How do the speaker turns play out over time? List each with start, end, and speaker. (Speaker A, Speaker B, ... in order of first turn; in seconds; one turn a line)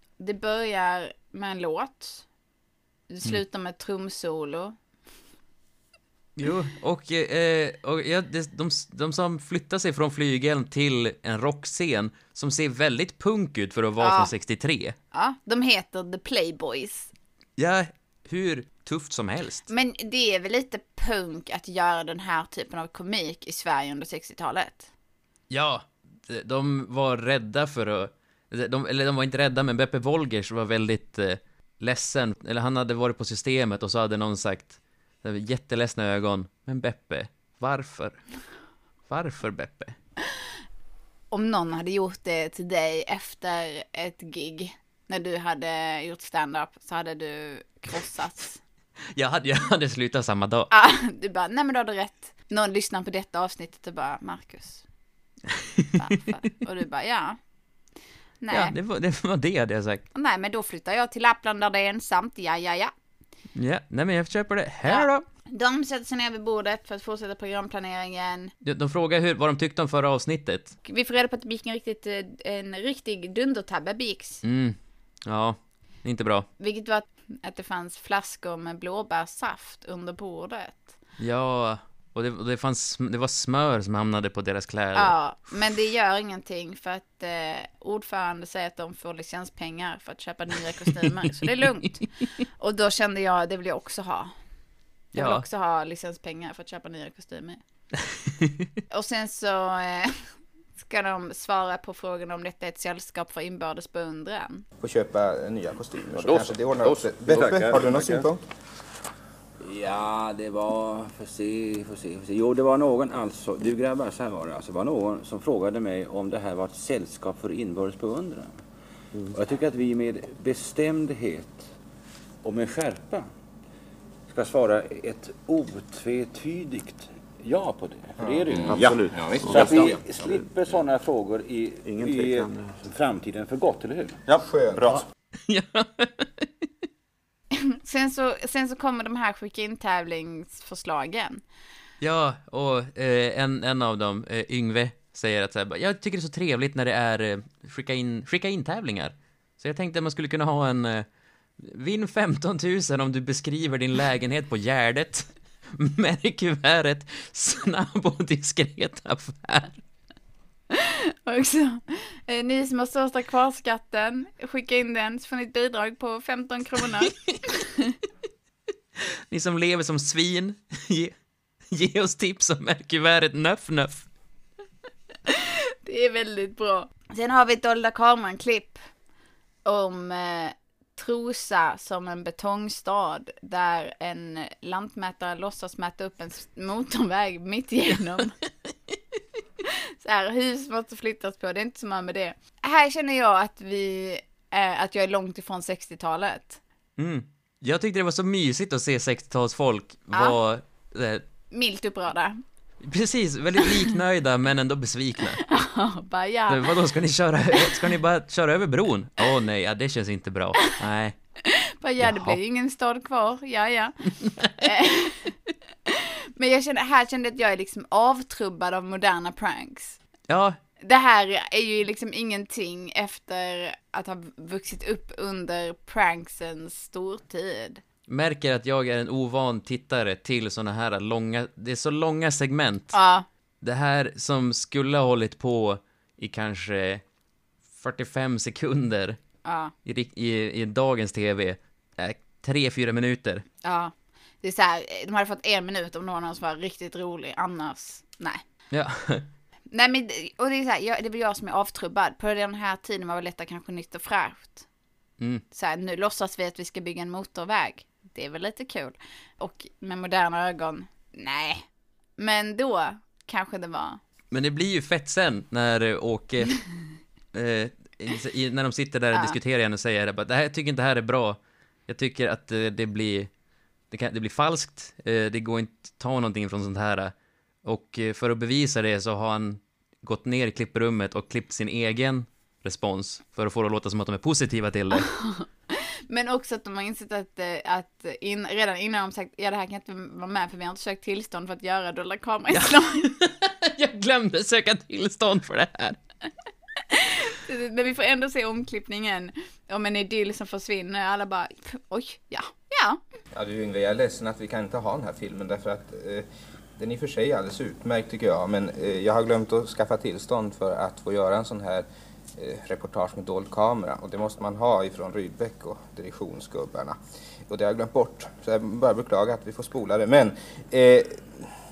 Speaker A: 0.2-2.2
Speaker A: 3.1-4.8
Speaker B: 6.4-14.9
Speaker A: 14.0-14.3
Speaker A: 15.1-17.1
Speaker B: 17.6-19.7
Speaker A: 19.7-24.9
Speaker B: 25.5-38.2
Speaker B: 39.1-40.0
Speaker A: 41.3-48.6
Speaker B: 49.1-50.7
Speaker A: 50.7-54.8
Speaker B: 55.5-56.0
Speaker A: 56.0-57.4
Speaker A: 58.4-58.7
Speaker B: 58.5-60.0
Speaker A: 60.1-62.9
Speaker B: 63.5-65.1
Speaker A: 64.9-68.5
Speaker B: 68.6-70.8
Speaker A: 70.8-74.4
Speaker B: 74.4-76.5
Speaker A: 76.6-80.9
Speaker B: 81.2-85.2
Speaker A: 85.0-92.1
Speaker A: 92.6-94.3
Speaker A: 95.1-97.6
Speaker B: 95.1-95.4
Speaker B: 98.4-98.6
Speaker A: 98.9-104.6
Speaker C: 104.8-108.4
Speaker D: 106.2-108.2
Speaker D: 109.6-118.5
Speaker D: 119.3-121.7
Speaker D: 122.4-123.3
Speaker D: 124.3-134.2
Speaker C: 128.2-130.0
Speaker E: 128.6-130.3
Speaker E: 131.9-132.5
Speaker E: 134.3-135.0
Speaker C: 134.4-135.0
Speaker B: 135.5-136.5
Speaker A: 137.6-141.4
Speaker B: 142.0-151.1
Speaker B: 151.6-159.8
Speaker A: 160.7-167.9
Speaker B: 169.3-171.1
Speaker B: 171.7-174.1
Speaker A: 175.3-178.8
Speaker A: 179.6-188.3
Speaker A: 189.6-196.6
Speaker B: 197.0-201.2
Speaker A: 201.5-202.4
Speaker B: 202.8-205.4
Speaker A: 205.5-206.7
Speaker B: 206.5-211.2
Speaker A: 207.7-207.9
Speaker A: 211.5-213.9
Speaker B: 212.0-212.4
Speaker B: 214.4-214.6
Speaker A: 214.6-215.3
Speaker A: 215.9-220.0
Speaker B: 220.3-220.6
Speaker A: 220.8-227.8
Speaker B: 228.1-232.9
Speaker A: 232.9-233.2
Speaker B: 233.6-237.0
Speaker B: 237.8-239.2
Speaker A: 239.4-239.7
Speaker B: 239.8-243.4
Speaker A: 243.6-248.4
Speaker B: 248.7-249.2
Speaker A: 249.7-254.6
Speaker A: 255.5-264.0
Speaker B: 264.3-266.6
Speaker B: 267.3-273.3
Speaker B: 273.9-277.1
Speaker B: 277.6-285.1
Speaker A: 284.9-293.1
Speaker B: 292.5-296.0
Speaker A: 296.9-303.0
Speaker C: 303.3-317.0
Speaker C: 317.5-321.5